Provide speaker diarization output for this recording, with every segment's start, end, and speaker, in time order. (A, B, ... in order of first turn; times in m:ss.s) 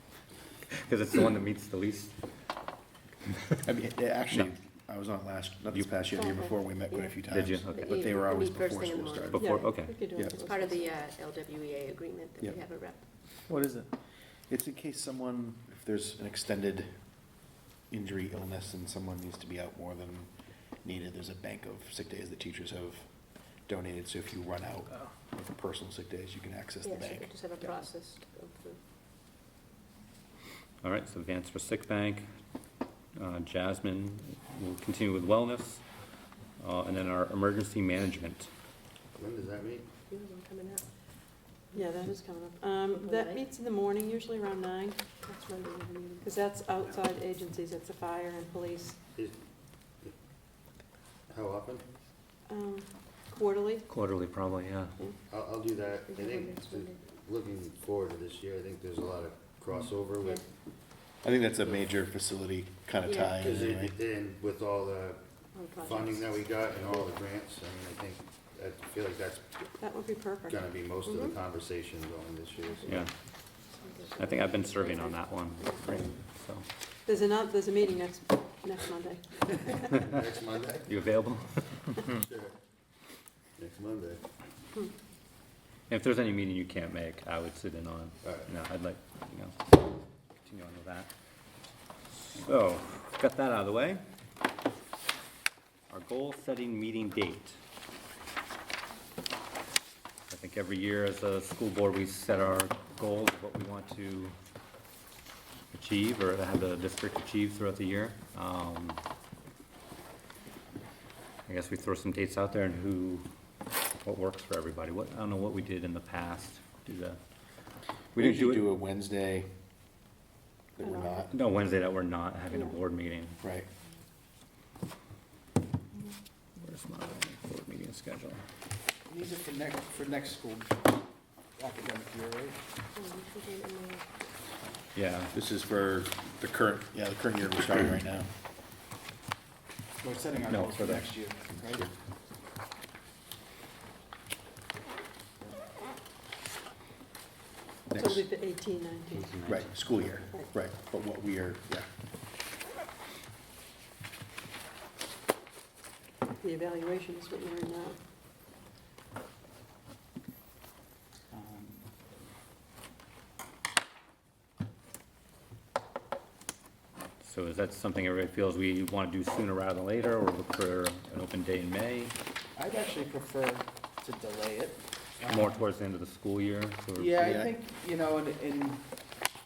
0:00.7-0:02.2 A
0:03.6-0:09.6 B
0:05.7-0:06.0 A
0:06.2-0:06.5 C
0:06.9-0:09.4 D
0:07.3-0:08.0 A
0:09.3-0:10.0 A
0:09.4-0:11.0 C
0:10.1-0:10.4 B
0:10.3-0:13.0 D
0:13.5-0:14.0 B
0:14.5-0:27.4 B
0:26.8-0:28.8 D
0:30.8-0:32.3 A
0:33.2-0:35.8 A
0:36.6-0:38.5 A
0:39.1-0:40.0 E
0:40.1-0:40.9 D
0:41.7-0:45.2 C
0:42.9-0:43.4 D
0:45.2-0:46.3 D
0:46.2-0:49.0 C
0:51.3-0:51.9 E
0:52.5-0:53.9 C
0:53.9-0:55.0 A
0:55.3-1:00.4 E
0:56.1-0:57.1 D
1:01.2-1:03.9 B
1:03.0-1:03.4 D
1:03.4-1:05.2 E
1:05.6-1:05.9 D
1:05.8-1:09.5 E
1:09.8-1:10.6 C
1:10.5-1:13.1 E
1:11.1-1:11.4 D
1:13.7-1:15.2 D
1:14.2-1:16.6 A
1:17.0-1:20.0 C
1:19.9-1:21.2 E
1:20.8-1:22.2 A
1:22.1-1:22.6 E
1:23.6-1:24.2 E
1:25.9-1:29.8 A
1:28.2-1:28.5 E
1:30.4-1:31.1 A
1:32.3-1:34.0 A
1:35.9-1:37.6 A
1:40.3-1:44.4 A
1:45.7-1:49.0 A
1:51.5-1:53.3 A
1:54.0-1:57.2 A
1:58.1-1:58.8 A
1:58.2-1:59.5 B
2:00.8-2:01.4 B
2:00.8-2:01.2 C
2:01.3-2:03.4 A
2:03.4-2:03.7 B
2:06.6-2:08.4 A
2:09.1-2:10.9 F
2:11.6-2:12.6 F
2:13.0-2:14.3 D
2:15.0-2:15.3 A
2:15.3-2:18.3 B
2:20.0-2:21.9 F
2:20.5-2:21.3 A
2:27.9-2:28.2 B
2:28.0-2:29.4 C
2:29.1-2:29.9 A
2:29.5-2:31.9 B
2:36.4-2:38.0 C
2:41.3-2:41.9 F
2:47.2-2:52.2 A
2:52.6-2:55.6 F
2:55.2-2:57.4 A
2:57.0-2:58.9 F